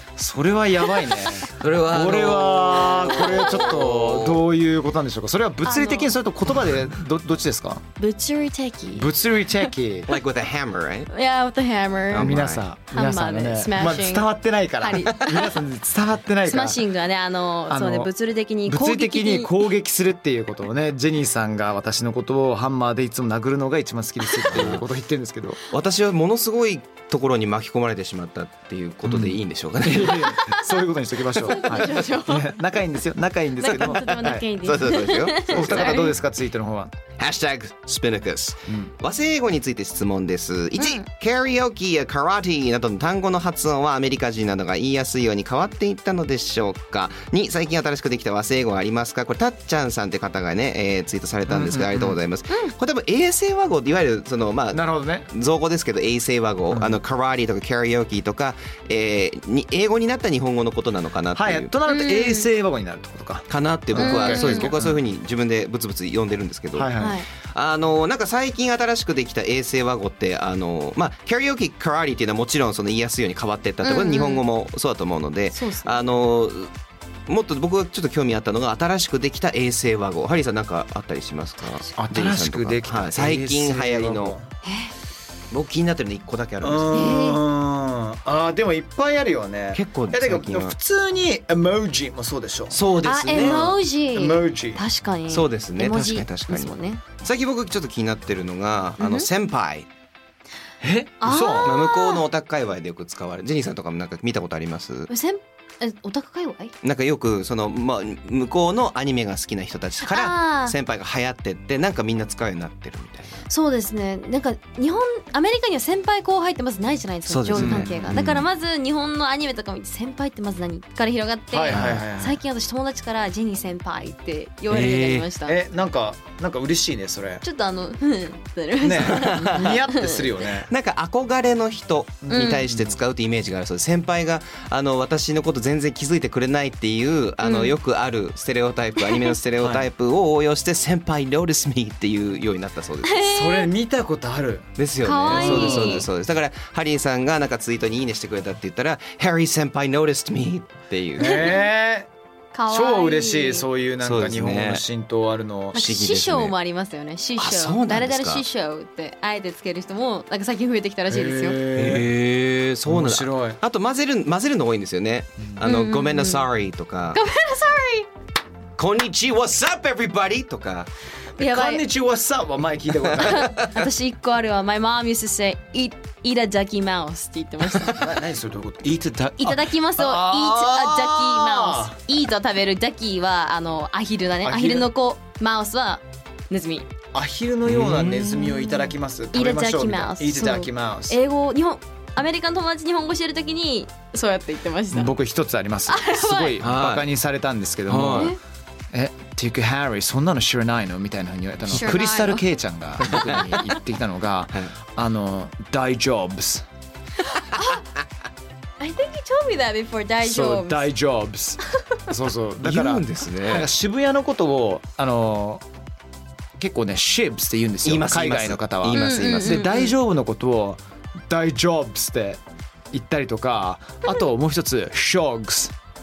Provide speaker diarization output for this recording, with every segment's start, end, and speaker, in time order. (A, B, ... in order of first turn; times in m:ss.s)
0:00.2-0:07.8 A
0:01.0-0:01.3 B
0:01.6-0:04.4 C
0:03.0-0:03.8 B
0:05.6-0:06.1 B
0:08.0-0:09.7 B
0:08.9-0:10.1 A
0:10.1-0:11.1 C
0:11.1-0:12.4 B
0:12.1-0:12.6 C
0:12.1-0:16.8 A
0:12.9-0:15.6 B
0:16.5-0:19.5 B
0:17.7-0:18.1 A
0:18.6-0:25.6 A
0:24.5-0:24.9 C
0:25.7-0:30.3 C
0:29.0-0:34.6 A
0:30.3-0:30.8 B
0:31.4-0:32.5 B
0:33.6-0:36.2 B
0:33.7-0:36.1 C
0:35.4-0:36.9 A
0:37.2-1:01.7 C
0:40.8-0:41.0 B
0:51.5-0:52.2 A
0:54.7-0:55.3 A
0:56.7-0:57.0 A
1:01.3-1:05.0 A
1:01.9-1:02.4 B
1:03.5-1:06.9 C
1:04.0-1:04.7 B
1:06.7-1:07.2 A
1:07.0-1:07.3 B
1:07.4-1:16.7 C
1:13.8-1:14.4 B
1:15.5-1:16.0 B
1:17.3-1:24.4 C
1:21.6-1:21.9 B
1:22.0-1:24.5 A
1:24.6-1:24.9 B
1:25.5-1:27.1 C
1:26.6-1:34.8 A
1:26.9-1:27.4 B
1:29.7-1:30.7 C
1:32.7-1:33.8 C
1:33.0-1:37.0 B
1:35.3-1:39.9 C
1:39.0-1:39.3 B
1:40.8-1:41.7 A
1:41.2-1:42.2 B
1:41.6-1:45.1 C
1:45.1-1:46.8 B
1:46.8-1:53.4 C
1:50.0-1:50.8 B
1:53.5-2:05.6 B
1:57.3-1:58.4 C
1:57.5-1:57.9 A
2:01.5-2:02.4 A
2:01.7-2:02.0 C
2:04.7-2:05.3 C
2:05.4-2:07.4 A
2:07.4-2:10.4 B
2:08.8-2:10.7 A
2:08.9-2:09.8 C
2:10.6-2:23.2 C
2:12.2-2:13.0 A
2:12.3-2:12.6 B
2:17.4-2:17.8 B
2:19.0-2:19.4 B
2:19.6-2:19.9 A
2:23.0-2:23.7 B
2:23.2-2:24.7 A
2:24.8-2:31.5 C
2:25.0-2:26.1 B
2:25.3-2:26.0 A
2:31.2-2:32.1 A
2:31.2-2:31.7 B
2:32.5-2:33.6 B
2:32.7-2:35.8 A
2:34.0-2:34.8 C
2:35.7-2:41.6 B
2:35.7-2:36.5 C
2:37.4-2:38.4 C
2:41.1-2:42.1 A
2:41.8-2:47.2 C
2:42.8-2:43.6 A
2:45.6-2:46.5 B
2:47.1-2:48.1 B
2:48.8-2:50.9 C
2:51.4-2:51.8 B
2:51.4-2:53.7 A
2:53.2-2:58.1 B
2:57.9-3:02.0 A
2:59.4-3:06.9 B
3:04.4-3:04.9 A
3:07.1-3:11.2 A
3:07.7-3:08.4 C
3:08.6-3:15.2 B
3:14.9-3:18.4 A
3:15.9-3:16.6 B
3:16.6-3:17.1 C
3:17.9-3:18.3 C
3:18.1-3:18.4 B
3:18.9-3:26.6 A
3:21.7-3:22.5 B
3:23.1-3:23.4 C
3:23.1-3:23.7 B
3:27.5-3:27.8 B
3:28.8-3:30.9 B
3:30.2-3:35.6 A
3:32.6-3:33.7 C
3:36.6-3:42.4 A
3:37.8-3:39.6 C
3:38.9-3:39.9 B
3:42.9-3:45.7 A